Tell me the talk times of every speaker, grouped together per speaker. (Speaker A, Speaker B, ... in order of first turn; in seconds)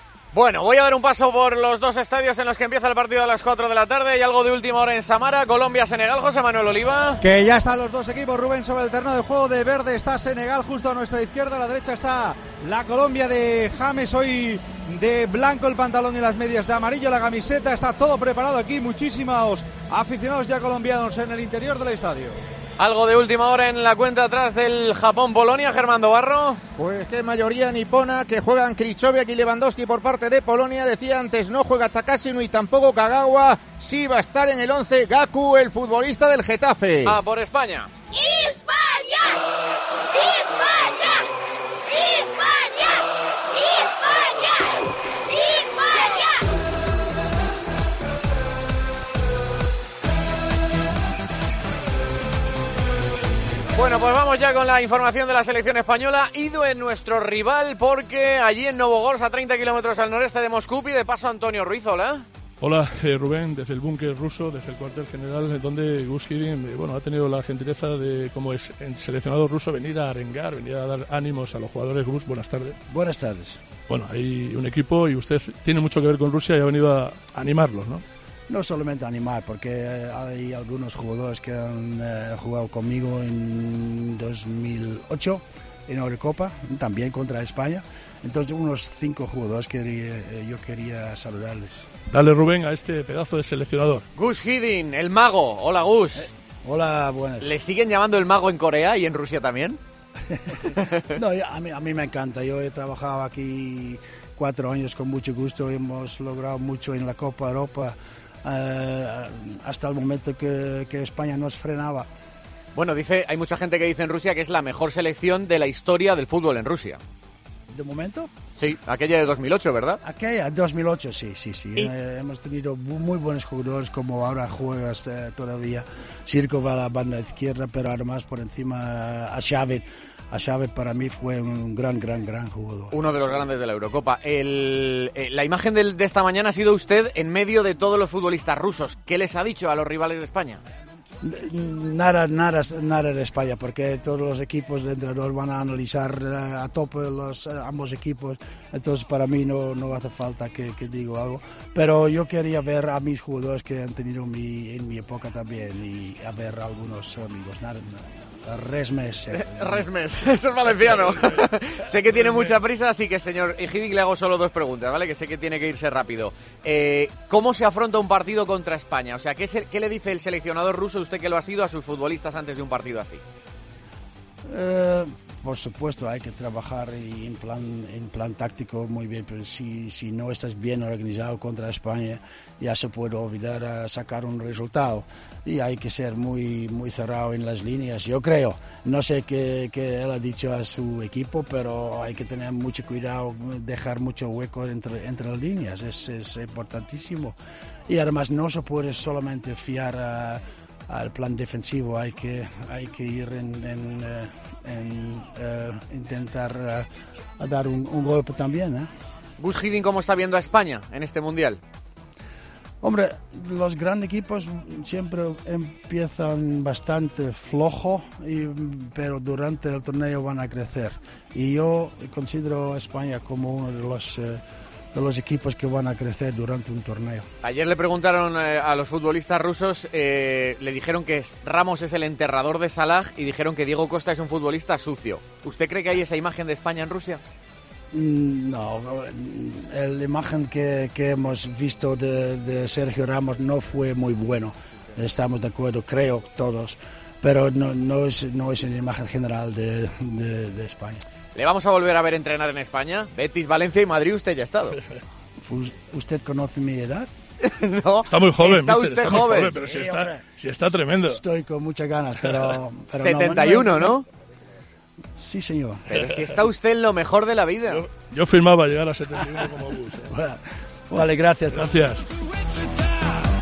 Speaker A: 0.3-7.2, 22.8-26.6, 37.0-37.9, 53.7-62.2, 94.2-96.2, 97.4-99.8, 112.7-117.0, 118.5-120.0, 132.9-140.6, 159.3-173.2, 209.4-211.6, 227.4-237.2, 251.3-254.8, 257.4-259.6, 263.0-264.0, 265.9-267.8
Speaker B: 7.2-22.4
Speaker C: 26.8-37.1
Speaker D: 38.1-39.4, 40.1-41.2, 41.9-46.4
Speaker E: 62.6-72.8, 73.9-78.0, 92.1-94.0, 258.1-261.2, 262.2-262.5, 265.9-266.4, 267.7-270.1, 271.5-272.1
Speaker F: 72.9-73.6, 78.5-91.9, 96.2-97.5, 100.3-112.1, 117.7-118.3, 120.0-133.0, 141.2-159.9, 174.4-197.4, 197.9-206.9, 207.4-208.9, 212.8-224.4, 224.9-227.3, 237.9-251.0, 255.4-257.1, 259.6-260.1, 261.1-264.0, 265.1-265.8, 270.1-271.7